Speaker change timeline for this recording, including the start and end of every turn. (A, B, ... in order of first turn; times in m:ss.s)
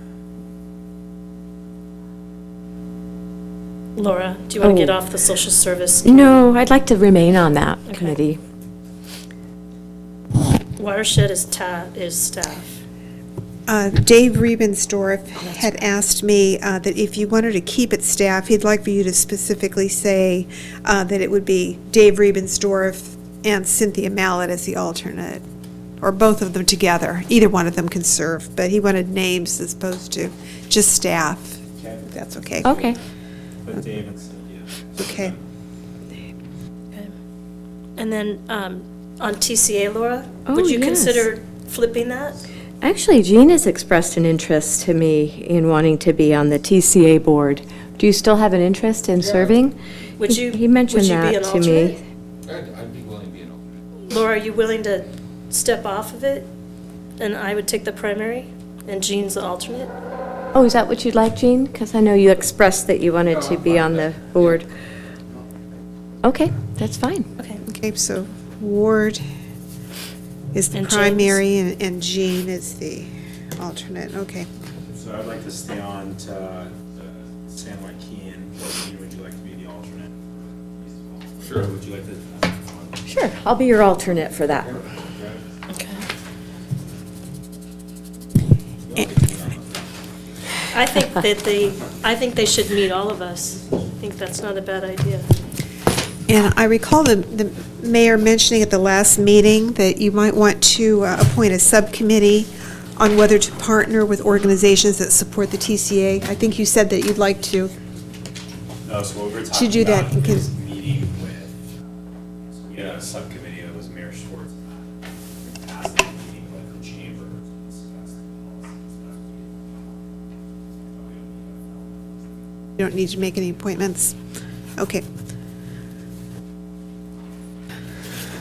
0:04.0-0:06.4 A
0:04.6-0:05.0 B
0:06.0-0:08.4 B
0:07.9-0:08.2 A
0:10.8-0:12.8 A
0:13.7-0:25.4 C
0:15.4-0:15.8 A
0:26.0-0:32.8 C
0:31.8-0:33.0 D
0:32.6-0:33.0 B
0:33.6-0:35.4 D
0:35.0-0:35.3 C
0:38.0-0:42.4 A
0:40.5-0:41.3 B
0:42.8-0:52.0 B
0:49.2-0:49.6 E
0:50.2-0:52.0 A
0:52.4-0:53.7 E
0:54.1-0:56.5 A
0:57.2-0:59.9 A
1:00.5-1:04.7 B
1:03.5-1:04.0 E
1:06.2-1:07.3 B
1:07.7-1:09.2 C
1:10.5-1:14.5 C
1:10.7-1:11.4 A
1:14.9-1:23.0 D
1:21.4-1:21.7 E
1:23.1-1:24.8 B
1:25.7-1:26.0 A
1:28.9-1:29.7 D
1:30.7-1:35.3 A
1:36.3-1:47.7 C
1:48.8-1:51.6 D
1:49.5-1:50.5 C
1:52.6-1:54.9 D
1:55.4-1:59.8 D
2:00.8-2:02.4 D
2:02.8-2:04.1 C
2:04.8-2:05.0 C